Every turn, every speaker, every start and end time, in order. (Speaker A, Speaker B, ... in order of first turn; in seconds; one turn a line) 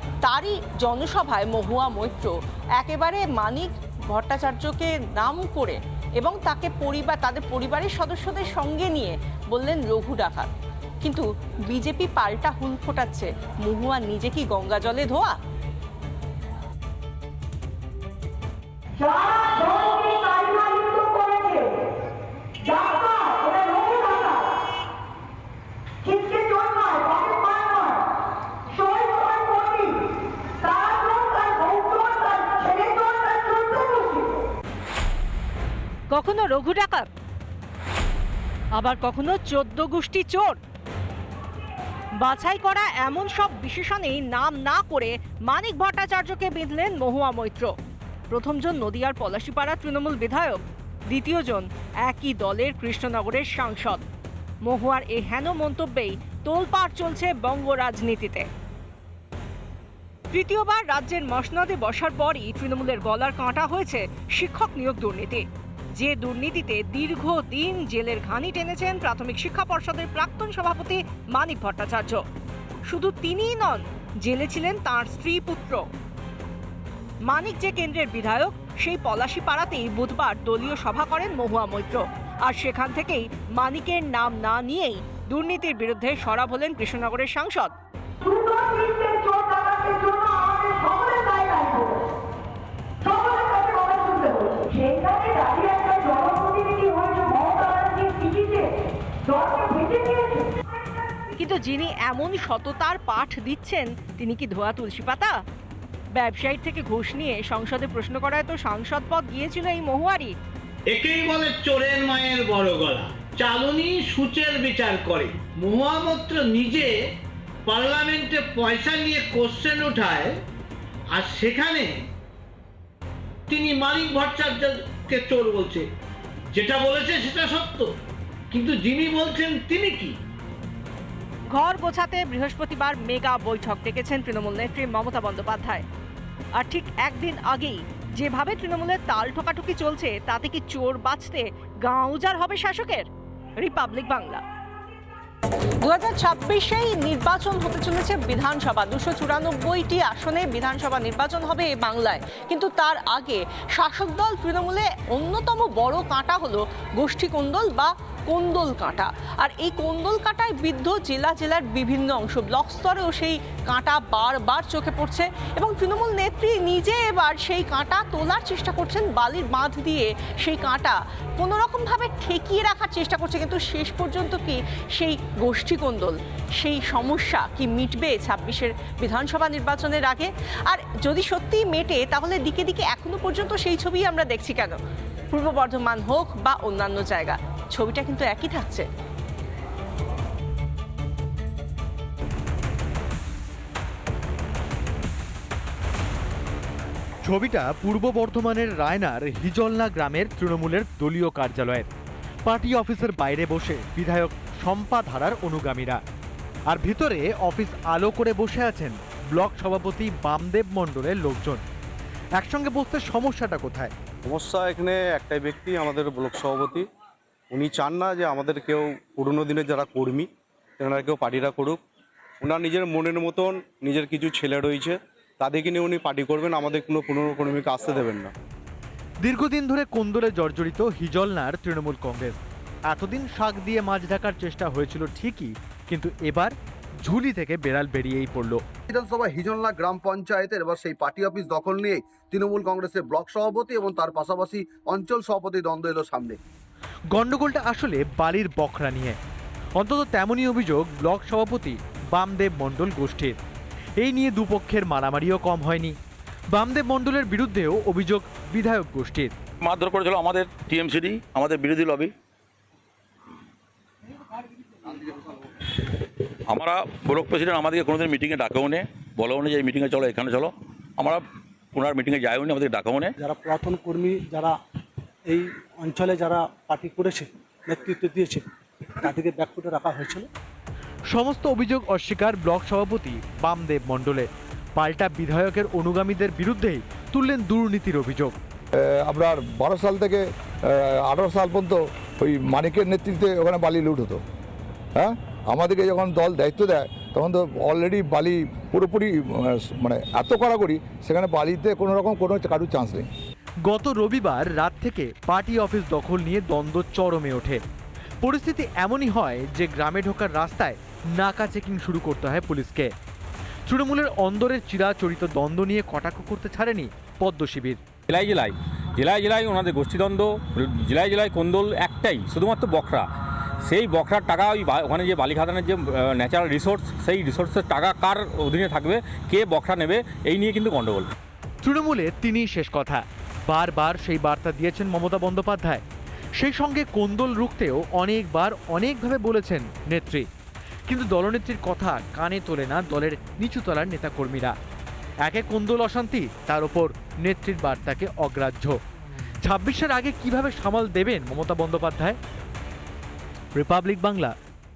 Speaker A: 0.2-10.5
Speaker A: 11.0-15.3
Speaker A: 19.0-21.8
Speaker A: 22.6-24.4
Speaker A: 26.1-28.0
Speaker A: 28.8-29.9
Speaker A: 30.6-34.2
Speaker A: 36.1-37.1
Speaker A: 38.7-40.6
Speaker A: 42.2-47.7
Speaker A: 48.3-54.0
Speaker A: 54.6-58.5
Speaker A: 60.3-65.4
Speaker A: 66.0-72.2
Speaker A: 72.9-75.8
Speaker A: 77.3-87.7
Speaker A: 90.3-91.5
Speaker A: 93.2-95.8
Speaker A: 96.7-98.6
Speaker A: 99.4-100.2
Speaker A: 101.3-105.3
Speaker A: 106.1-110.3
Speaker B: 110.9-116.9
Speaker B: 117.7-120.4
Speaker B: 121.1-122.0
Speaker B: 123.5-125.9
Speaker B: 126.5-127.9
Speaker B: 128.5-130.2
Speaker A: 131.5-135.8
Speaker A: 136.6-144.4
Speaker A: 145.8-184.8
Speaker A: 185.3-188.8
Speaker C: 197.2-201.9
Speaker C: 202.4-206.0
Speaker C: 206.7-211.6
Speaker C: 212.4-213.9
Speaker D: 214.2-216.8
Speaker D: 217.5-220.3
Speaker D: 220.8-221.8
Speaker D: 222.4-228.3
Speaker C: 229.2-232.4
Speaker C: 232.9-238.6
Speaker E: 238.9-246.4
Speaker C: 247.1-249.2
Speaker C: 249.8-253.4
Speaker C: 254.0-255.9
Speaker C: 256.5-259.3
Speaker F: 259.6-262.1
Speaker F: 266.5-273.1
Speaker G: 273.2-274.6
Speaker G: 275.3-278.4
Speaker G: 279.0-280.3
Speaker C: 281.1-288.3
Speaker H: 289.1-294.2
Speaker H: 294.9-303.1
Speaker C: 303.7-307.6
Speaker C: 308.2-312.9
Speaker C: 313.7-317.8
Speaker I: 318.1-323.1
Speaker I: 323.6-331.1
Speaker C: 331.6-335.8
Speaker C: 336.4-340.2
Speaker C: 340.9-344.5
Speaker C: 345.2-348.8
Speaker C: 349.4-352.2
Speaker C: 353.5-354.3